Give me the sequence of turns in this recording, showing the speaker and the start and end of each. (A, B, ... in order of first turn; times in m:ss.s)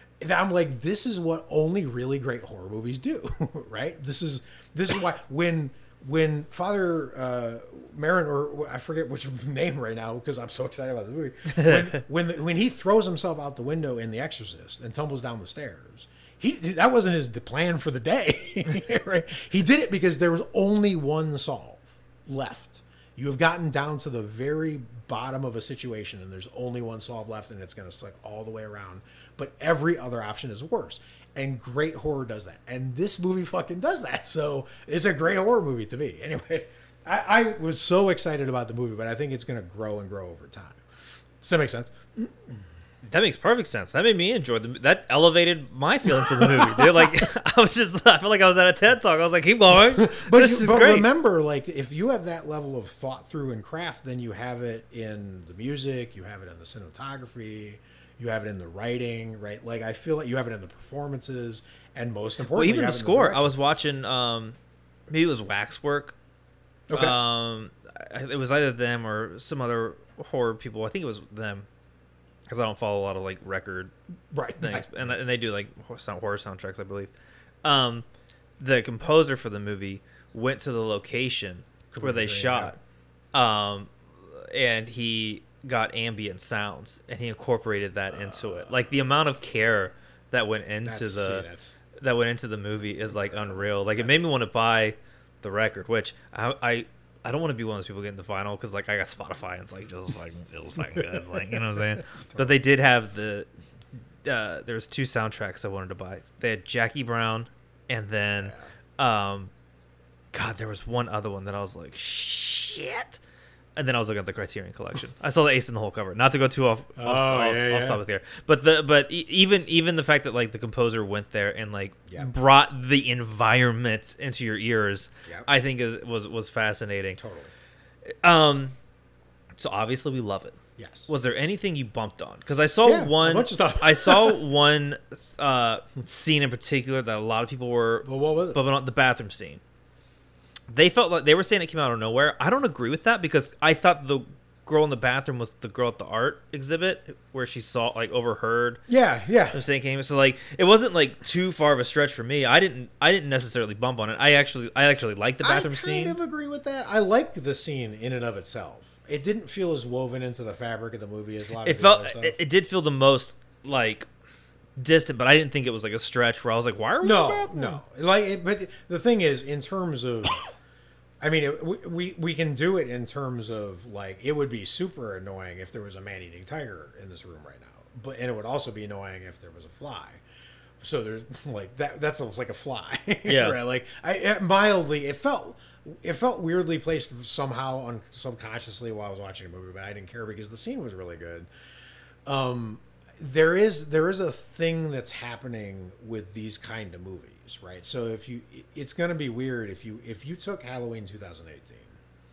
0:00.2-0:40.8 A
0:11.5-0:11.9 B
0:41.4-0:42.6 A
0:43.0-0:51.1 B
0:46.0-0:47.2 A
0:49.7-1:03.6 A
1:02.5-1:04.6 B
1:05.1-1:06.2 B
1:06.9-1:07.2 A
1:06.9-1:11.7 B
1:12.5-1:13.9 B
1:14.3-1:15.1 A
1:14.6-1:17.1 B
1:17.6-1:18.0 B
1:18.6-1:22.8 B
1:21.9-1:22.7 A
1:23.3-1:43.5 B
1:28.1-1:28.8 A
1:30.8-1:31.8 A
1:44.2-1:49.5 B
1:50.3-1:53.2 B
1:53.8-2:07.2 B
1:57.0-1:58.0 A
2:07.2-2:07.5 A
2:08.2-2:08.8 B
2:09.6-2:19.6 B
2:10.8-2:11.1 A
2:12.8-2:14.4 A
2:18.0-2:18.6 A
2:20.7-2:28.8 B
2:28.9-2:29.6 A
2:29.5-2:36.2 B
2:35.4-2:42.4 A
2:41.6-2:44.1 B
2:44.8-2:47.8 B
2:47.0-2:50.4 A
2:51.2-3:00.2 A
3:00.8-3:11.5 A
3:03.2-3:03.6 B
3:12.2-3:22.0 A